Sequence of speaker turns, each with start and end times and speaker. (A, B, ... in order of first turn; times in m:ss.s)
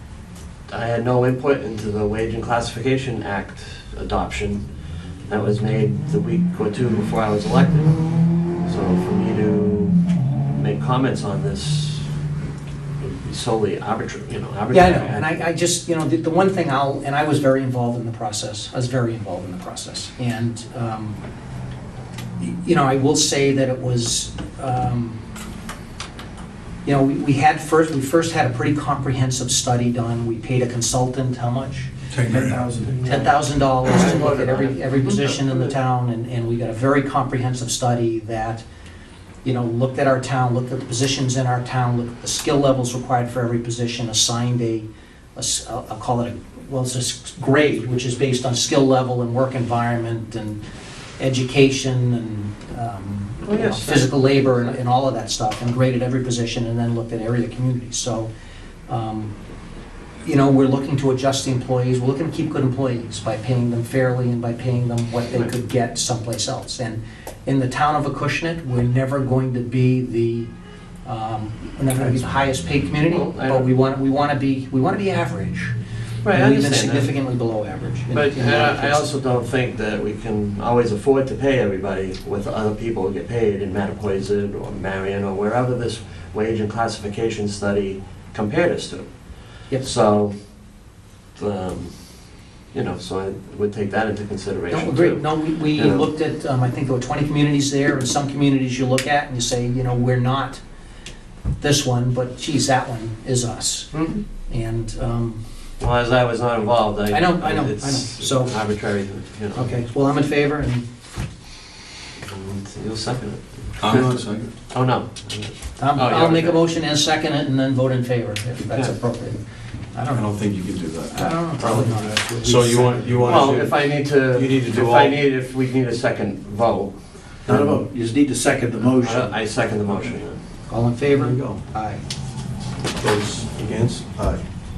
0:00.7-0:04.7 A
0:05.3-0:12.1 A
0:13.0-0:15.3 A
0:14.7-0:21.2 B
0:22.4-0:25.2 B
0:26.8-0:38.6 B
0:32.1-0:32.6 C
0:32.1-0:33.3 D
0:33.8-0:35.7 A
0:39.4-0:50.6 B
0:51.2-0:58.3 B
0:53.4-0:54.4 A
0:58.9-0:59.3 B
1:00.2-1:10.5 B
1:11.0-1:15.8 B
1:13.1-1:13.7 A
1:16.2-1:17.1 A
1:16.3-1:19.1 B
1:18.1-1:30.3 A
1:31.4-1:36.1 A
1:34.7-1:40.6 B
1:41.6-1:44.0 B
1:43.9-1:44.2 A
1:44.5-1:45.4 B
1:45.8-1:49.7 A
1:47.1-1:48.6 B
1:49.5-1:50.8 B
1:52.3-1:56.6 A
1:53.8-1:54.5 C
1:55.8-1:59.4 B
1:59.9-2:00.3 B
2:00.1-2:05.2 C
2:01.1-2:02.8 B
2:01.6-2:03.6 D
2:03.2-2:07.7 A
2:07.5-2:09.4 D
2:08.8-2:10.4 A
2:10.7-2:12.0 B
2:11.1-2:11.6 C
2:13.0-2:14.4 C